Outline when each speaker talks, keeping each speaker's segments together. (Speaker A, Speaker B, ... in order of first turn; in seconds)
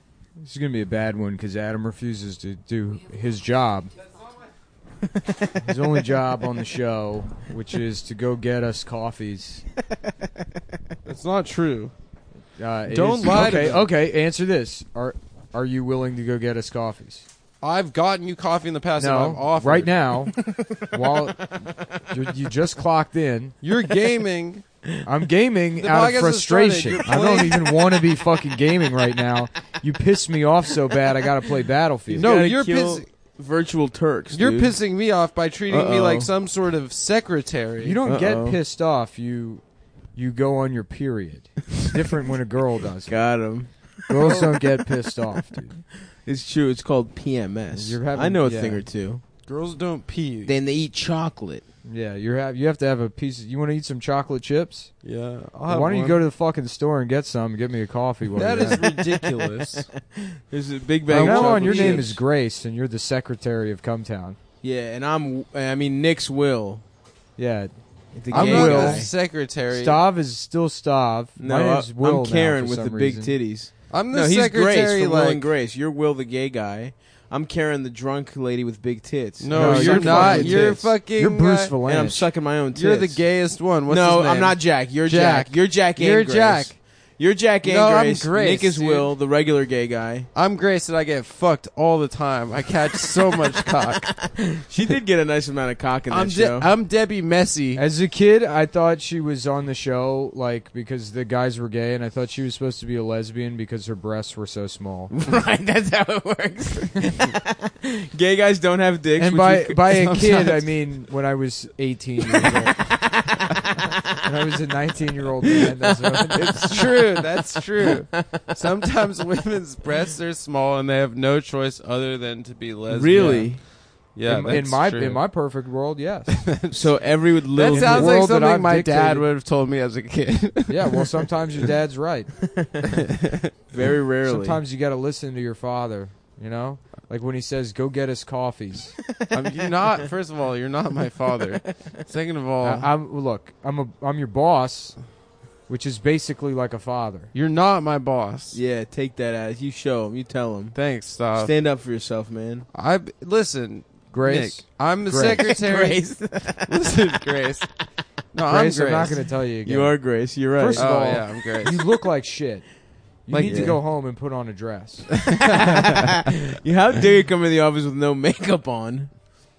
Speaker A: 0.4-3.9, 5.6-9.7, 12.6-17.3, 19.0-23.5, 25.0-32.3, 37.8-43.3, 44.1-45.8, 47.7-48.8, 51.9-54.9, 55.7-58.8, 61.1-64.4, 67.4-73.4, 79.5-82.3, 85.0-85.6, 97.8-105.1, 109.2-113.0, 114.2-116.6, 123.2-123.4, 124.2-126.5, 127.7-129.3, 130.7-132.5, 134.2-139.0, 142.6-145.0, 145.7-147.3, 154.1-155.5, 158.5-165.7
Speaker B: 5.1-5.7, 20.5-20.9, 32.1-34.8, 35.7-36.3, 38.1-38.6, 43.1-44.6, 46.2-49.2, 50.5-51.6, 58.7-62.2, 64.6-66.8, 68.1-69.1, 71.4-80.9, 81.8-83.2, 83.8-90.3, 94.2-96.7, 105.1-110.1, 112.4-113.9, 115.5-118.5, 122.9-123.6, 126.7-128.2, 132.6-132.9, 133.7-134.6, 139.2-139.7, 141.5-142.0, 148.5-150.8, 151.3-152.7, 155.3-156.9, 159.7-160.9, 163.4-163.8, 165.4-169.4
Speaker C: 11.0-11.9, 12.9-13.9, 17.6-19.9, 23.6-24.6, 25.8-27.7, 32.2-33.1, 34.3-38.0, 44.2-44.5, 49.5-50.5, 55.0-56.2, 58.4-59.9, 61.1-62.1, 68.3-70.0, 73.9-75.5, 79.4-81.8, 82.7-84.6, 86.0-86.8, 87.6-89.1, 90.3-94.4, 96.1-97.8, 109.9-110.7, 116.6-125.2, 126.3-131.7, 133.0-133.5, 139.3-142.9, 147.3-148.6, 150.7-151.6, 152.7-159.2, 160.8-161.8, 163.3-163.8